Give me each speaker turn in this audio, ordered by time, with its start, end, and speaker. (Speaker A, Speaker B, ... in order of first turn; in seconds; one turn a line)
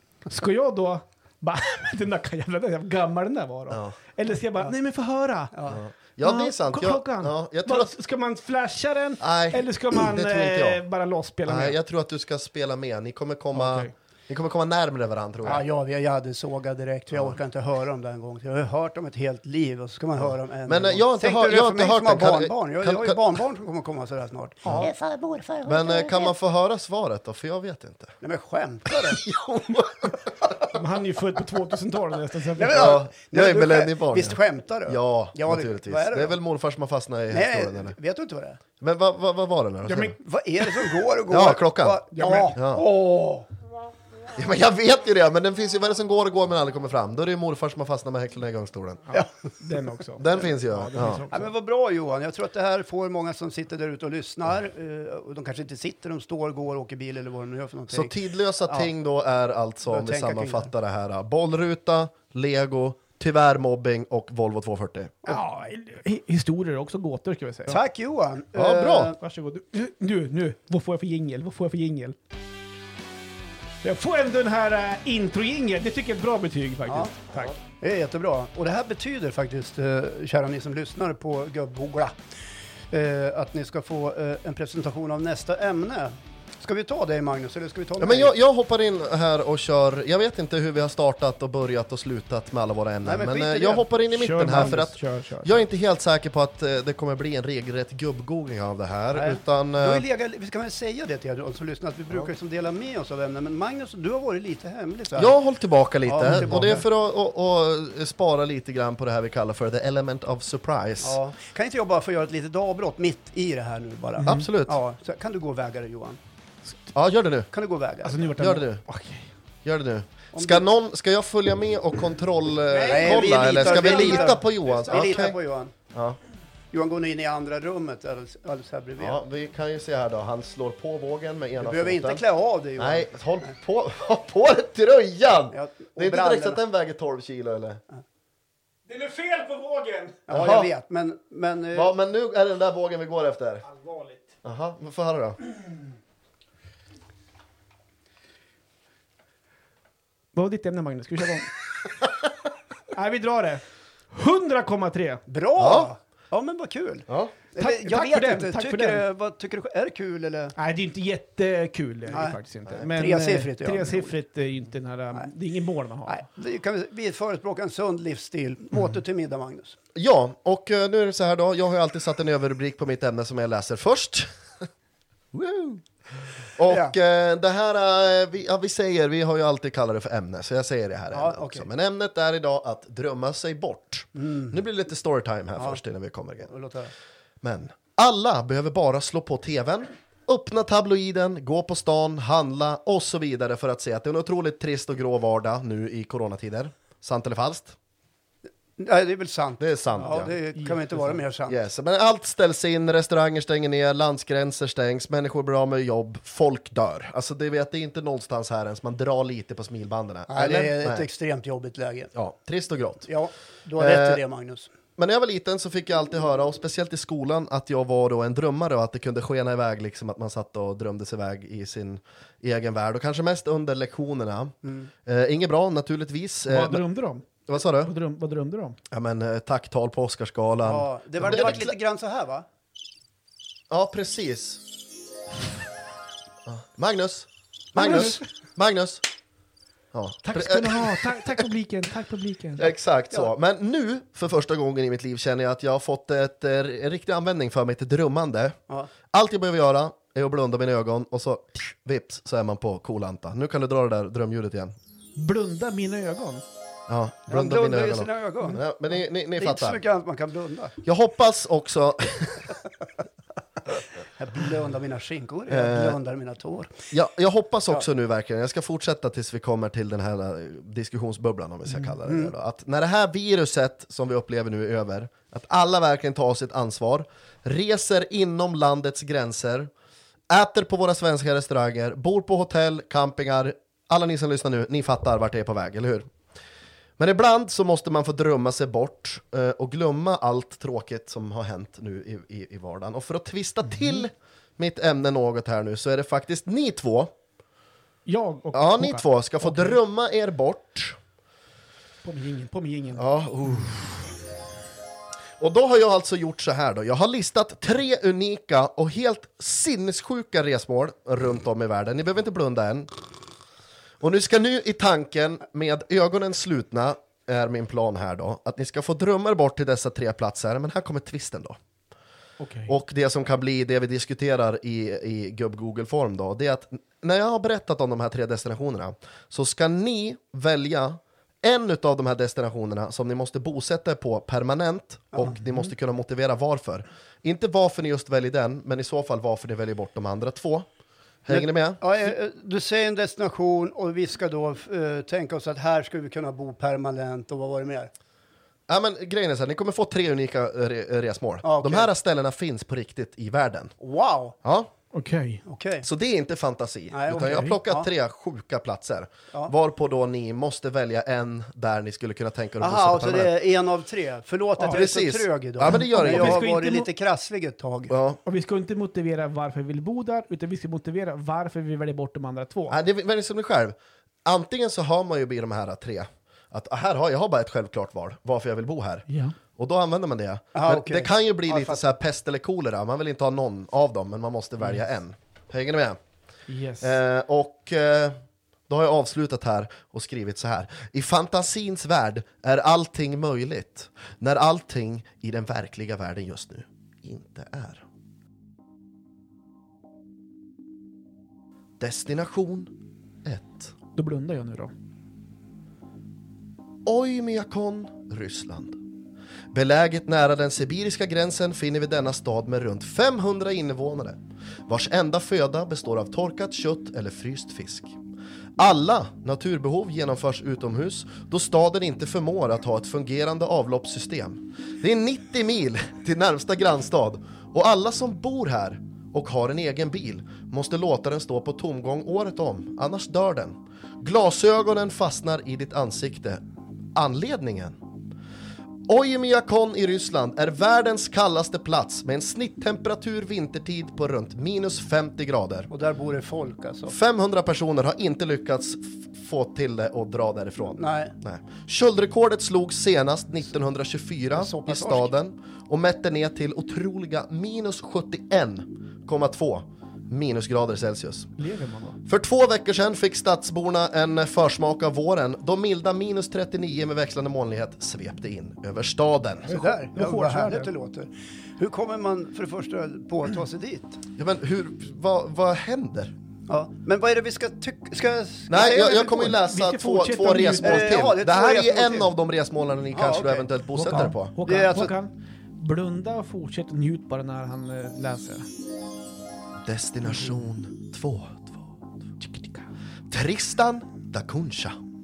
Speaker A: 0.3-5.7
Speaker B: 3.7-4.0
Speaker C: 5.5-5.8
Speaker B: 5.7-7.9
Speaker A: 6.2-11.8
Speaker B: 9.2-10.8
Speaker B: 11.5-15.6
Speaker A: 13.5-13.9
Speaker C: 15.4-26.3
Speaker B: 20.7-23.4
Speaker B: 25.6-28.1
Speaker C: 28.2-29.2
Speaker B: 28.9-30.7
Speaker A: 30.7-32.9
Speaker C: 32.5-36.4
Speaker B: 32.7-38.0
Speaker C: 37.3-38.6
Speaker B: 38.8-40.2
Speaker A: 39.9-40.1
Speaker C: 40.2-43.5
Speaker B: 41.3-42.0
Speaker A: 42.1-42.6
Speaker B: 42.6-42.8
Speaker B: 44.3-49.1
Speaker A: 49.6-51.5
Speaker B: 50.2-51.2
Speaker C: 51.3-58.1
Speaker B: 57.9-65.4
Speaker C: 59.9-60.7
Speaker A: 65.2-67.8
Speaker C: 67.7-69.2
Speaker B: 68.5-69.1
Speaker A: 69.2-72.2
Speaker A: 73.8-77.5
Speaker C: 76.9-77.1
Speaker C: 77.7-82.2
Speaker C: 82.9-88.3
Speaker B: 88.0-100.0
Speaker C: 93.0-93.9
Speaker A: 94.1-95.5
Speaker C: 99.1-105.4
Speaker B: 105.2-111.2
Speaker C: 106.0-106.8
Speaker C: 111.0-116.2
Speaker A: 114.2-114.5
Speaker B: 114.2-114.8
Speaker B: 117.0-117.5
Speaker C: 117.5-118.3
Speaker A: 118.0-119.3
Speaker B: 118.4-118.8
Speaker B: 119.6-125.4
Speaker C: 120.3-120.6
Speaker C: 122.7-125.7
Speaker A: 123.0-125.0
Speaker B: 125.9-126.2
Speaker C: 126.7-129.2
Speaker B: 129.0-132.2
Speaker C: 131.6-133.5
Speaker B: 132.8-137.8
Speaker C: 135.5-136.6
Speaker A: 138.9-140.2
Speaker C: 140.3-141.9
Speaker B: 140.3-140.7
Speaker B: 141.7-143.6
Speaker A: 143.7-144.3
Speaker B: 144.4-145.4
Speaker A: 150.3-151.6
Speaker A: 152.9-155.2
Speaker C: 155.3-160.6
Speaker B: 155.6-155.9
Speaker B: 157.1-157.3
Speaker A: 157.6-159.0
Speaker A: 160.6-166.3
Speaker C: 162.1-164.2
Speaker C: 166.1-169.8
Speaker B: 169.9-174.7
Speaker B: 175.3-175.9
Speaker B: 176.6-186.5
Speaker C: 176.7-176.9
Speaker C: 181.1-181.7
Speaker C: 184.2-184.5
Speaker C: 186.5-186.9
Speaker B: 187.4-197.8
Speaker C: 198.8-201.6
Speaker B: 199.6-200.3
Speaker A: 200.0-201.2
Speaker B: 201.5-211.1
Speaker C: 210.3-212.1
Speaker B: 212.1-213.1
Speaker C: 213.1-214.7
Speaker B: 213.8-214.2
Speaker B: 215.0-226.8
Speaker C: 224.6-224.9
Speaker A: 226.5-228.8
Speaker B: 227.5-227.9
Speaker B: 228.9-231.7
Speaker C: 230.6-232.5
Speaker B: 233.7-234.6
Speaker B: 236.5-239.0
Speaker A: 237.8-238.2
Speaker B: 239.9-241.5
Speaker A: 240.2-242.7
Speaker B: 242.6-248.6
Speaker B: 249.1-254.7
Speaker A: 255.2-256.4
Speaker B: 256.9-259.8
Speaker C: 257.3-258.6
Speaker C: 259.4-260.8
Speaker B: 260.8-262.6
Speaker C: 264.2-266.7
Speaker B: 265.5-266.0
Speaker B: 266.9-279.7
Speaker C: 272.1-272.3
Speaker B: 280.3-286.1
Speaker B: 287.0-297.1
Speaker A: 298.1-299.8
Speaker B: 298.5-301.0
Speaker A: 302.0-303.1
Speaker B: 303.0-304.1
Speaker B: 305.4-312.9
Speaker B: 314.0-321.6
Speaker A: 322.4-322.7
Speaker B: 322.7-340.7
Speaker B: 341.3-342.1
Speaker C: 341.3-347.9
Speaker B: 348.7-353.7
Speaker C: 351.4-351.9
Speaker C: 353.8-354.4
Speaker B: 354.4-354.7
Speaker A: 354.9-355.4
Speaker C: 355.5-355.9
Speaker B: 355.8-363.3
Speaker C: 356.9-357.9
Speaker A: 357.1-357.6
Speaker C: 362.6-367.9
Speaker B: 364.7-366.4
Speaker A: 365.7-366.9
Speaker B: 367.9-368.2
Speaker A: 368.3-372.8
Speaker B: 372.7-386.0
Speaker A: 379.1-379.4
Speaker C: 380.5-381.8
Speaker A: 386.5-386.9
Speaker B: 386.8-388.1
Speaker B: 388.7-397.8
Speaker B: 401.8-402.7
Speaker B: 403.2-403.7
Speaker A: 404.0-404.7
Speaker B: 406.9-408.8
Speaker B: 409.5-418.0
Speaker B: 418.6-436.4
Speaker B: 436.9-437.8
Speaker B: 438.9-445.7
Speaker C: 445.7-446.9
Speaker B: 446.9-461.3
Speaker C: 450.8-451.1
Speaker C: 454.4-455.1
Speaker A: 461.4-462.0
Speaker B: 462.1-469.5
Speaker A: 469.5-470.7
Speaker C: 469.5-474.0
Speaker B: 474.2-476.1
Speaker C: 476.5-479.3
Speaker B: 478.5-484.4
Speaker A: 479.0-481.1
Speaker C: 480.6-482.1
Speaker C: 482.9-483.5
Speaker A: 483.8-488.5
Speaker C: 484.4-484.9
Speaker B: 489.6-491.7
Speaker A: 492.2-492.6
Speaker B: 493.1-494.8